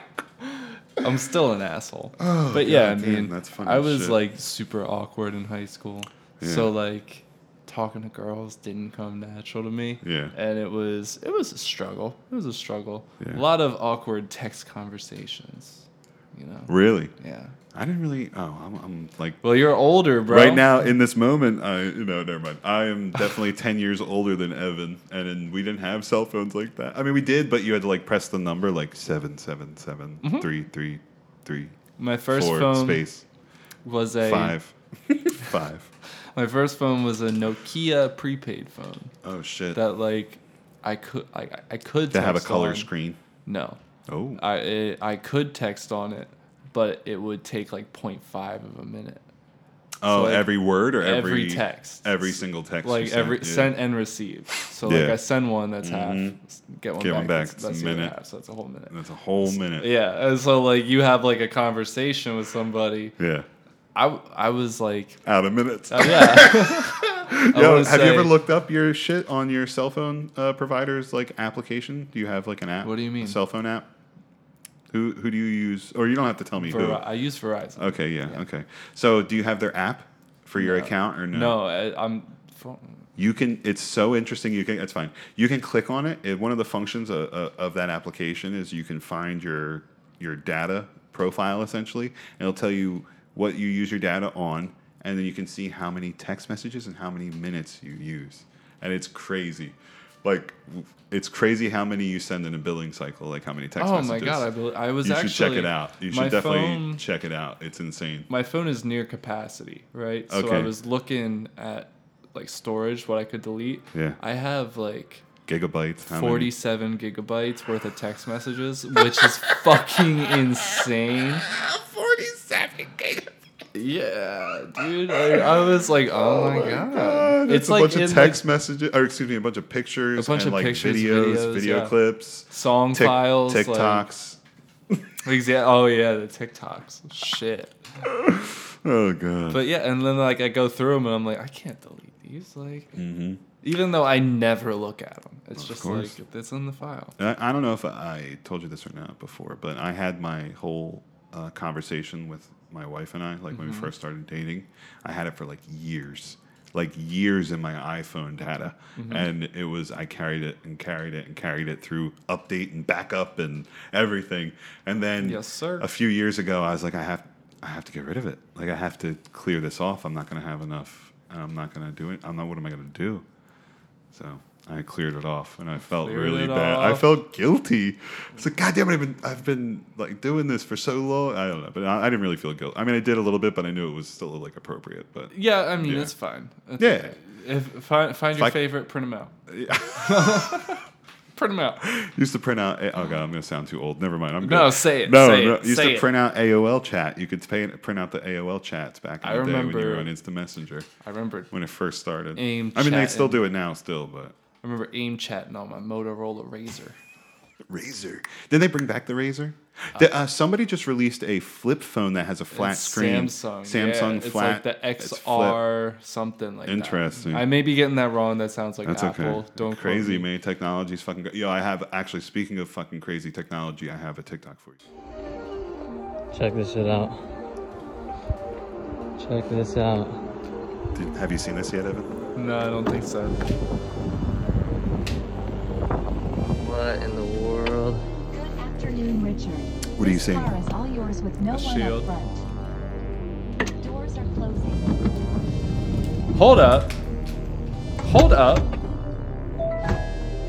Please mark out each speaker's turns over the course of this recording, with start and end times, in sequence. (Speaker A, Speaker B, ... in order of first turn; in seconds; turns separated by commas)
Speaker A: 1.0-17.5, Speaker B: 2.2-4.2, Speaker B: 6.4-6.7, Speaker B: 10.0-10.3, Speaker B: 13.2-13.4, Speaker B: 16.7-17.1, Speaker B: 17.7-19.4, Speaker A: 19.4-20.7, Speaker B: 20.2-33.2, Speaker A: 30.2-30.5, Speaker A: 32.0-33.0, Speaker A: 33.8-34.6, Speaker B: 34.2-35.9, Speaker A: 36.3-39.1, Speaker B: 39.2-39.8, Speaker A: 39.7-42.9, Speaker B: 42.1-43.2, Speaker A: 43.4-43.8, Speaker B: 44.1-44.4, Speaker A: 44.4-49.2, Speaker B: 50.0-53.8, Speaker A: 50.1-58.9, Speaker B: 54.8-55.2, Speaker B: 55.8-56.4, Speaker B: 57.0-58.1, Speaker B: 58.9-59.9, Speaker A: 59.5-63.1, Speaker B: 63.2-63.5, Speaker A: 63.9-65.2, Speaker B: 65.2-73.9, Speaker A: 65.9-68.3, Speaker A: 72.8-73.4, Speaker B: 74.9-77.0, Speaker A: 76.6-78.4, Speaker B: 77.8-81.6, Speaker A: 80.5-83.0, Speaker B: 83.2-104.5, Speaker A: 103.8-107.0, Speaker B: 105.0-108.3, Speaker A: 108.3-115.3, Speaker B: 110.3-110.7, Speaker B: 115.5-116.5, Speaker A: 116.1-121.5, Speaker B: 119.2-119.5, Speaker B: 121.4-123.3, Speaker A: 123.7-128.4, Speaker B: 125.2-134.4, Speaker A: 130.2-132.0, Speaker A: 132.5-134.1, Speaker A: 135.2-137.8, Speaker B: 138.0-139.6, Speaker A: 139.5-142.9, Speaker B: 142.9-143.4, Speaker A: 143.6-147.2, Speaker B: 145.6-146.2, Speaker B: 147.2-173.2, Speaker A: 153.5-153.9, Speaker A: 158.9-159.3, Speaker A: 165.2-165.9, Speaker B: 174.1-186.1, Speaker A: 176.0-177.1, Speaker A: 185.3-189.3, Speaker B: 186.8-187.2, Speaker B: 188.3-188.6, Speaker B: 189.5-190.6, Speaker A: 189.9-191.8, Speaker B: 191.8-200.9, Speaker A: 194.4-196.1, Speaker A: 199.2-200.1, Speaker A: 201.0-201.5, Speaker B: 201.5-204.3, Speaker A: 202.3-203.4, Speaker A: 204.6-207.0, Speaker B: 207.7-215.6, Speaker A: 212.5-220.3, Speaker B: 216.7-217.5, Speaker B: 218.8-224.8, Speaker C: 226.3-227.2, Speaker C: 229.2-230.2, Speaker B: 230.9-232.1, Speaker A: 232.3-233.4, Speaker C: 236.5-238.0, Speaker D: 238.3-242.4, Speaker B: 240.0-240.5, Speaker A: 241.5-242.1, Speaker D: 243.8-245.5, Speaker A: 246.3-246.9, Speaker A: 248.0-248.7